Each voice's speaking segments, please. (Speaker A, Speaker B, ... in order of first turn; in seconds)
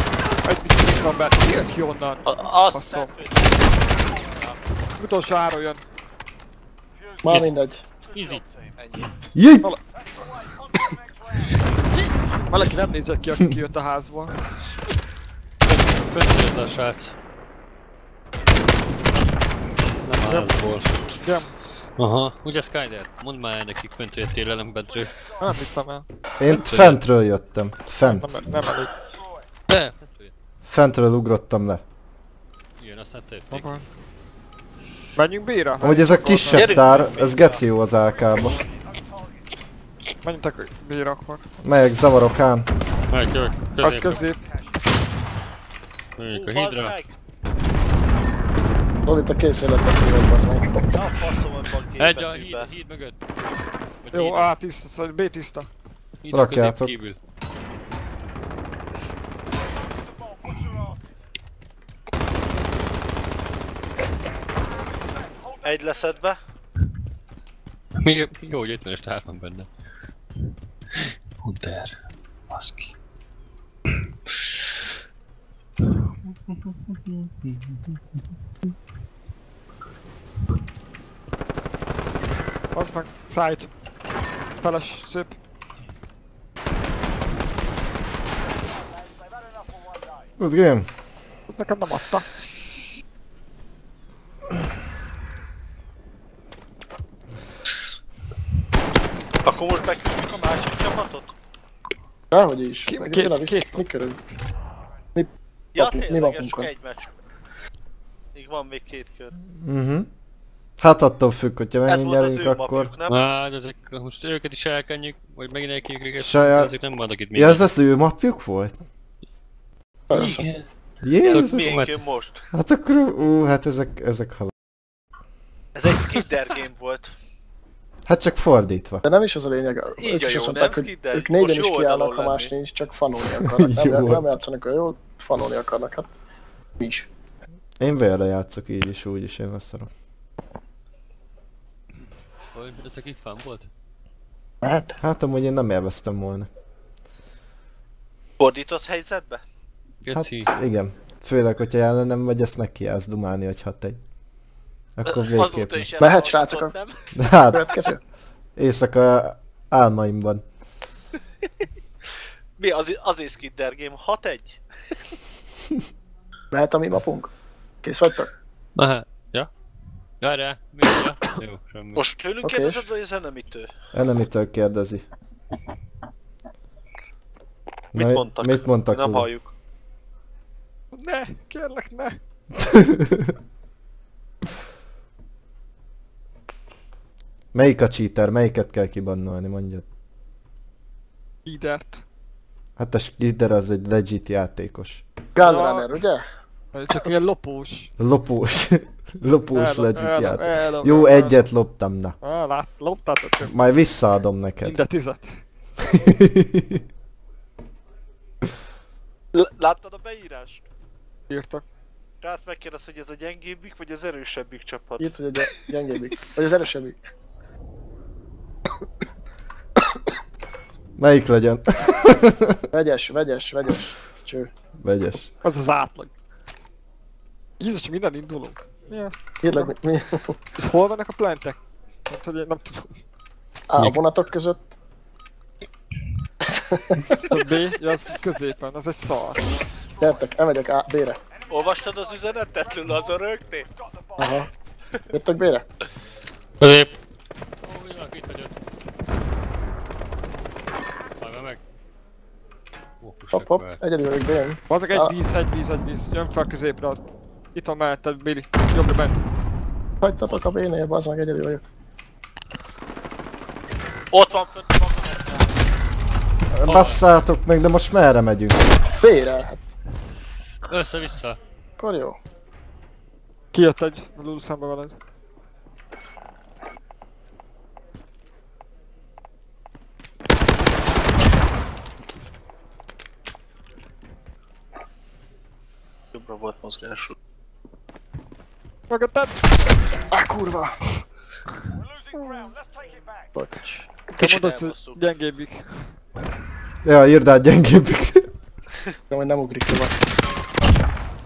Speaker A: 0.4-3.1, 5.0-5.8, 12.5-14.3, 20.2-20.6, 21.1-21.5, 25.4-26.1, 28.0-28.9, 33.5-33.8, 35.1-36.7, 40.2-41.4, 43.8-44.4, 54.1-55.7, 82.7-83.7, 84.6-85.3, 91.5-92.3, 102.9-103.8, 180.9-182.2, 191.4-192.0, 195.4-195.9, 196.7-197.9, 199.5-201.3, 202.2-203.5, 204.6-205.4, 211.3-211.6, 225.4-226.1, 227.6-229.7, 230.6-232.9, 237.2-239.4, 254.7-257.0, 257.5-259.2, 273.5-274.9, 288.9-289.4, 292.1-292.5, 294.1-295.9
Speaker B: 2.2-4.6, 36.5-37.6, 46.3-47.1, 50.9-52.7, 65.6-66.4, 99.4-101.3, 105.7-107.1, 108.3-109.3, 111.9-113.2, 121.2-122.4, 125.7-127.1, 130.0-132.5, 148.4-149.4, 155.1-157.1, 162.6-164.6, 171.9-173.7, 177.9-179.5, 209.3-210.6, 212.2-215.1, 241.5-243.7, 264.1-265.6, 266.6-266.9, 286.1-287.1, 294.2-295.0
Speaker C: 7.2-7.8, 49.0-50.9, 102.3-104.2, 105.1-106.7, 120.1-120.5, 129.0-136.1, 136.8-137.1, 144.6-144.9, 156.0-156.7, 157.5-158.0, 166.5-167.3, 167.8-168.3, 172.4-172.8, 195.3-196.2, 215.0-217.0, 222.7-224.5, 229.4-230.3, 233.7-234.7, 236.4-237.2, 240.0-241.2, 244.2-244.5, 245.1-245.7, 253.3-255.1, 260.0-261.6, 266.6-266.9, 269.0-269.7, 271.8-272.2, 290.1-290.8, 293.4-293.9, 299.1-300.0
Speaker D: 8.1-8.4, 15.7-17.1, 20.0-21.1, 22.0-25.3, 26.5-27.0, 29.7-30.3, 32.8-33.7, 43.1-44.2, 46.2-47.0, 52.0-53.2, 54.0-54.5, 56.2-57.2, 68.0-69.7, 70.9-72.0, 72.5-72.9, 76.5-78.0, 113.1-117.7, 120.1-120.7, 121.2-121.9, 142.5-143.7, 150.0-150.5, 168.8-169.5, 170.2-172.0, 246.6-246.9, 247.6-248.6, 251.2-251.6, 253.0-253.8, 270.7-271.4
Speaker E: 9.3-9.7, 26.4-28.4, 30.6-31.8, 35.8-38.6, 41.6-42.7, 56.3-56.9, 90.4-90.9, 109.5-110.1, 110.8-112.9, 116.2-116.7, 117.3-118.8, 121.0-121.8, 122.5-124.5, 128.1-129.0, 133.4-134.3, 137.8-139.9, 145.0-146.5, 150.1-154.0, 155.0-155.9, 157.2-157.7, 158.6-160.4, 173.9-175.0, 177.9-179.3, 182.6-183.3, 187.5-189.8, 192.8-195.0, 198.0-202.2, 203.5-204.8, 205.9-206.8, 221.0-222.6, 224.8-225.3, 266.6-268.7, 296.8-298.3